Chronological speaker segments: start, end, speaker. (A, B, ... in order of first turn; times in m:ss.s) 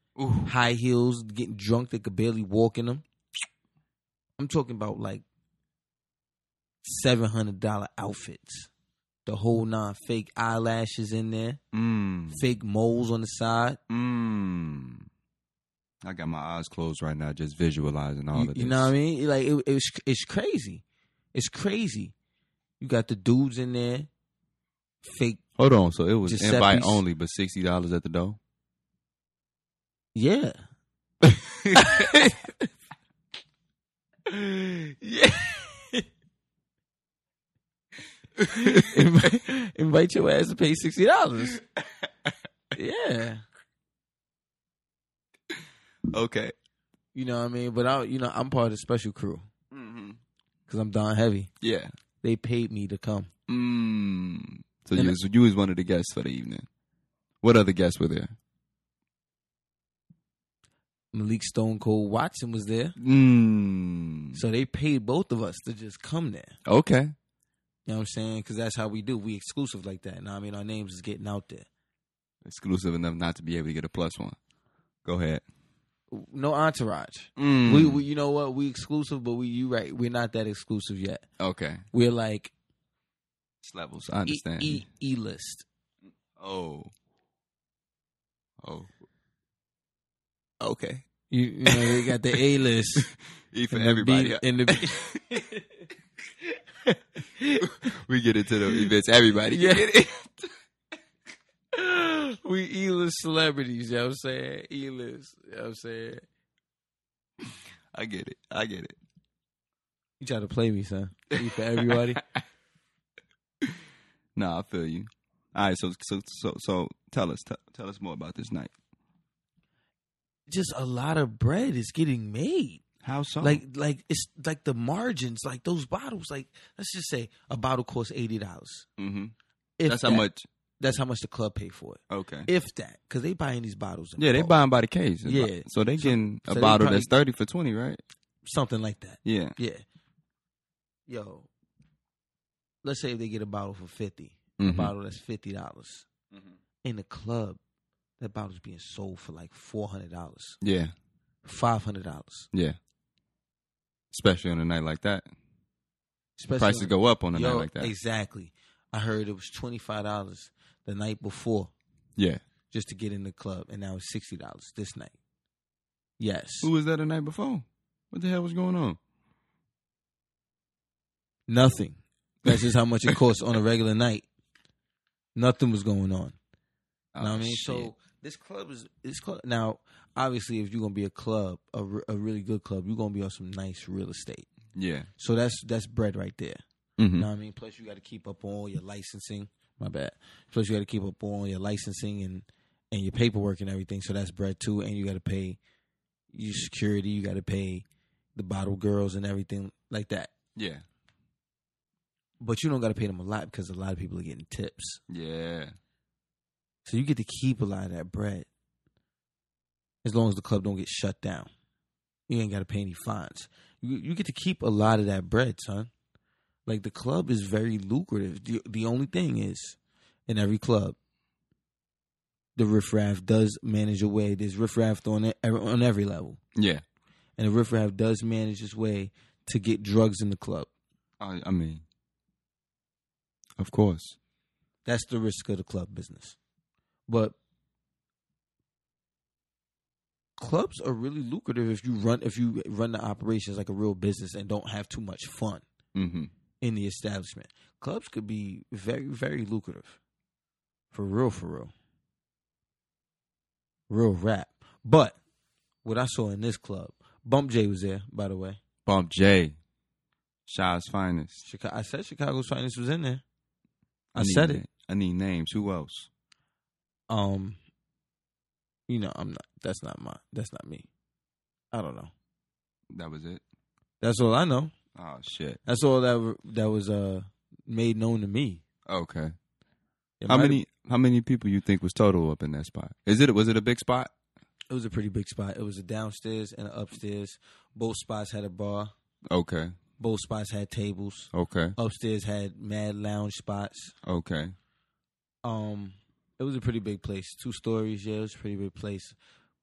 0:00.2-0:00.5 A
0:00.4-0:03.0 B
0:04.4-0:05.2 B
0:06.8-0:08.7 B
0:09.2-0:11.6 B
0:11.7-0:12.4 A
0:12.3-0:13.8 B
0:13.9-0:15.1 A
0:16.0-0:18.9 A
0:18.3-0:20.8 B
0:21.3-0:22.1 B
0:22.8-0:24.1 B
0:25.0-0:25.4 B
0:25.6-0:28.4 A
0:26.2-0:27.0 B
0:30.1-0:30.6 B
0:31.2-0:32.1 A
0:31.8-0:32.7 B
0:34.2-0:36.0 B
0:38.4-0:39.0 A
0:38.6-0:41.6 B
0:41.8-0:42.3 A
0:42.7-0:43.4 B
0:45.5-0:46.5 A
0:47.1-0:49.4 B
0:49.7-0:50.2 A
0:50.7-0:51.5 B
0:51.6-0:51.9 A
0:52.2-0:53.3 B
0:53.5-0:56.6 A
0:57.4-0:58.4 A
1:01.1-1:03.0 B
1:03.0-1:04.4 A
1:04.3-1:06.5 B
1:06.6-1:07.1 A
1:07.8-1:11.7 B
1:12.4-1:14.4 A
1:15.0-1:15.4 A
1:16.1-1:21.2 B
1:17.4-1:18.0 A
1:21.4-1:21.8 A
1:21.9-1:22.5 B
1:23.6-1:24.8 A
1:24.2-1:25.6 B
1:26.4-1:26.9 A
1:28.6-1:28.9 A
1:30.6-1:31.0 A
1:31.3-1:33.1 B
1:31.6-1:32.1 A
1:33.0-1:35.2 A
1:33.7-1:35.8 B
1:36.4-1:37.9 B
1:37.6-1:40.5 A
1:39.5-1:39.8 B
1:41.7-1:46.2 B
1:47.9-1:49.0 A
1:50.2-1:52.2 B
1:51.8-1:52.4 A
1:54.3-1:58.7 A
2:00.5-2:02.8 B
2:03.0-2:03.6 A
2:03.4-2:08.9 B
2:09.0-2:09.3 A
2:09.8-2:10.2 B
2:09.8-2:10.5 A
2:10.8-2:14.5 B
2:12.1-2:12.5 A
2:14.2-2:18.0 A
2:15.2-2:17.1 B
2:18.4-2:19.8 B
2:19.2-2:19.6 A
2:21.1-2:21.5 B
2:22.8-2:26.1 B
2:24.6-2:24.9 A
2:26.8-2:27.6 B
2:28.2-2:30.6 B
2:30.6-2:30.9 A
2:31.4-2:32.5 B
2:32.5-2:32.8 A
2:34.1-2:35.2 A
2:36.4-2:41.7 B
2:36.6-2:37.9 A
2:42.7-2:45.1 B
2:46.2-2:46.7 B
2:46.6-2:49.0 A
2:51.5-2:54.2 B
2:55.4-2:56.4 B
2:57.1-2:57.9 A
2:57.2-3:04.5 B
3:04.7-3:05.1 A
3:05.2-3:06.6 B
3:07.0-3:07.3 A
3:07.2-3:15.6 B
3:16.3-3:20.3 B
3:20.6-3:20.8 A
3:22.4-3:25.0 B
3:25.1-3:25.7 A
3:26.8-3:28.5 B
3:30.0-3:31.5 B
3:32.3-3:35.9 B
3:36.6-3:41.0 B
3:42.6-3:46.4 B
3:46.6-3:46.8 A
3:47.4-3:50.7 B
3:51.2-3:51.8 A
3:53.6-3:54.2 A
3:54.8-3:56.4 B
3:57.1-3:57.4 B
4:00.4-4:05.6 B
4:05.9-4:06.3 A
4:06.6-4:10.0 B
4:10.9-4:11.7 B
4:13.9-4:15.2 B
4:15.8-4:18.6 B
4:18.8-4:19.6 A
4:20.5-4:21.4 A
4:21.4-4:23.2 B
4:24.1-4:26.1 A
4:24.2-4:24.6 B
4:27.1-4:27.6 B
4:28.9-4:30.9 B
4:31.7-4:32.1 B
4:32.9-4:33.4 A
4:34.0-4:34.7 B
4:34.9-4:35.6 A
4:35.6-4:38.6 B
4:38.9-4:39.3 A
4:40.2-4:40.6 B
4:40.3-4:44.1 A
4:44.7-4:48.9 B
4:49.3-4:49.8 A
4:50.0-4:53.9 B
4:51.3-4:51.7 A
4:54.0-4:54.5 A
4:55.4-4:59.2 B